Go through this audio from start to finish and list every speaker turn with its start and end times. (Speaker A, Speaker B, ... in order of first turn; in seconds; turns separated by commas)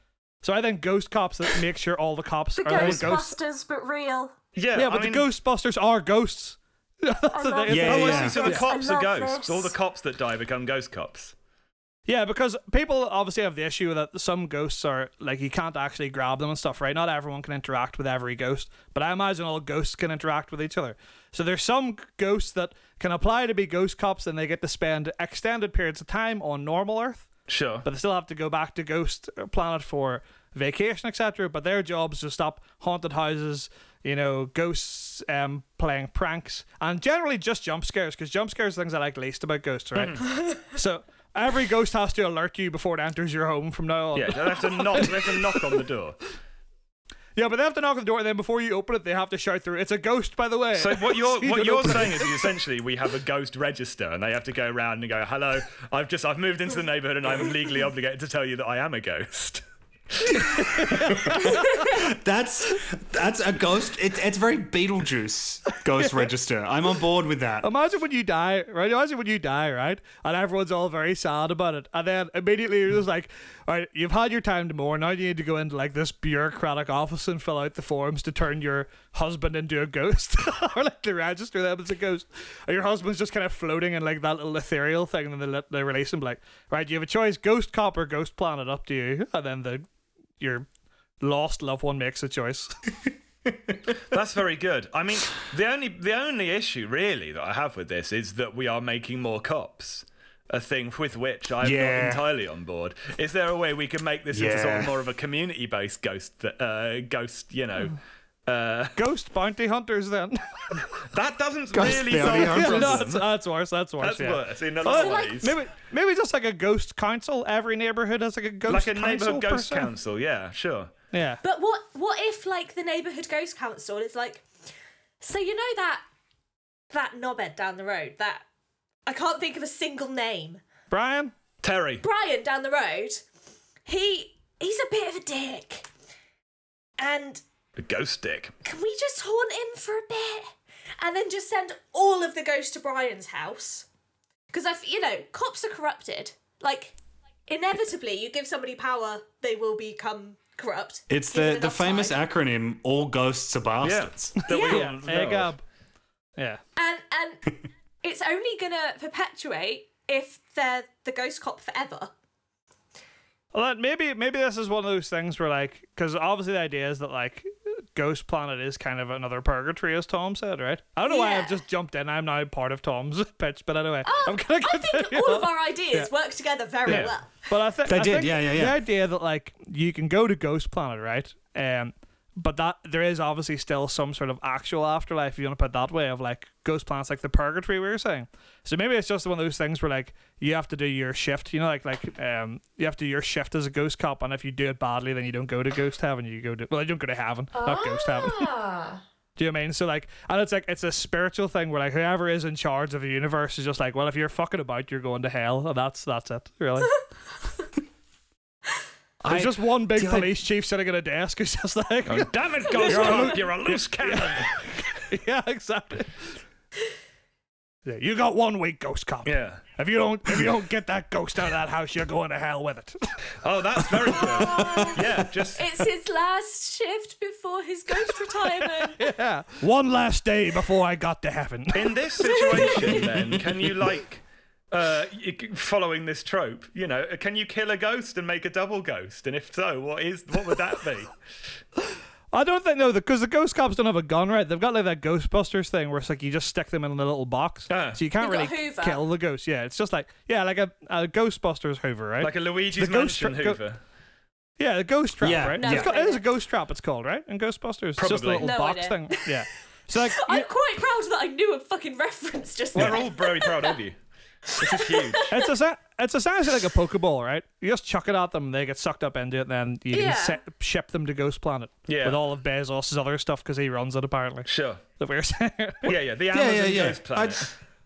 Speaker A: 0.4-3.4, Speaker B: 2.5-4.3, Speaker C: 4.5-5.3, Speaker A: 4.7-8.6, Speaker B: 7.3-9.7, Speaker D: 7.7-8.4, Speaker C: 7.8-11.3, Speaker A: 12.1-27.3, Speaker C: 27.5-27.9, Speaker A: 27.8-45.5, Speaker C: 39.9-40.3, Speaker C: 44.1-46.2, Speaker A: 47.4-52.4, Speaker C: 50.7-61.1, Speaker A: 60.4-61.9, Speaker D: 61.2-67.7, Speaker A: 66.0-66.3, Speaker A: 67.6-89.8, Speaker A: 90.4-90.7, Speaker A: 91.2-92.7, Speaker C: 94.0-109.0, Speaker D: 101.6-102.2, Speaker D: 104.3-104.9, Speaker A: 109.0-110.9, Speaker C: 111.1-113.2, Speaker D: 111.7-113.2, Speaker A: 112.2-119.9, Speaker C: 114.0-115.5, Speaker B: 114.8-115.4, Speaker C: 118.7-120.9, Speaker A: 121.1-121.4, Speaker B: 121.4-124.5, Speaker B: 125.2-126.0, Speaker B: 126.9-128.4, Speaker B: 129.1-130.6, Speaker A: 130.9-131.3, Speaker C: 131.6-132.0, Speaker B: 132.0-133.2, Speaker B: 133.8-135.9, Speaker B: 137.0-137.4, Speaker C: 137.8-138.5, Speaker B: 138.6-143.9, Speaker B: 144.5-146.9, Speaker B: 147.5-152.2, Speaker D: 151.1-154.4, Speaker C: 153.8-155.5, Speaker B: 154.5-154.9, Speaker A: 154.5-155.6, Speaker B: 156.8-162.1, Speaker A: 163.5-176.1, Speaker B: 171.0-171.6, Speaker B: 174.0-177.5, Speaker C: 176.8-177.1, Speaker A: 176.8-198.5, Speaker D: 177.8-178.8, Speaker B: 197.5-199.0, Speaker A: 199.4-207.1, Speaker D: 209.2-210.3, Speaker A: 209.3-216.3, Speaker C: 212.1-214.6, Speaker B: 212.7-213.3, Speaker A: 217.8-223.1, Speaker C: 219.2-219.6, Speaker C: 223.4-225.7, Speaker B: 224.3-225.0, Speaker B: 225.5-229.1, Speaker A: 228.6-233.1, Speaker C: 231.7-241.1, Speaker B: 232.2-233.1, Speaker A: 242.3-253.6, Speaker C: 247.7-248.0, Speaker B: 248.2-249.0, Speaker C: 252.2-253.8, Speaker A: 254.6-260.5, Speaker D: 255.2-255.9, Speaker B: 255.6-256.2, Speaker C: 258.0-258.5, Speaker B: 258.4-263.8, Speaker C: 262.7-264.0, Speaker C: 264.5-265.3, Speaker B: 264.8-265.5, Speaker A: 265.3-276.0, Speaker B: 269.9-270.4, Speaker C: 271.9-272.2, Speaker C: 274.4-274.8, Speaker C: 275.8-277.5, Speaker D: 276.3-277.5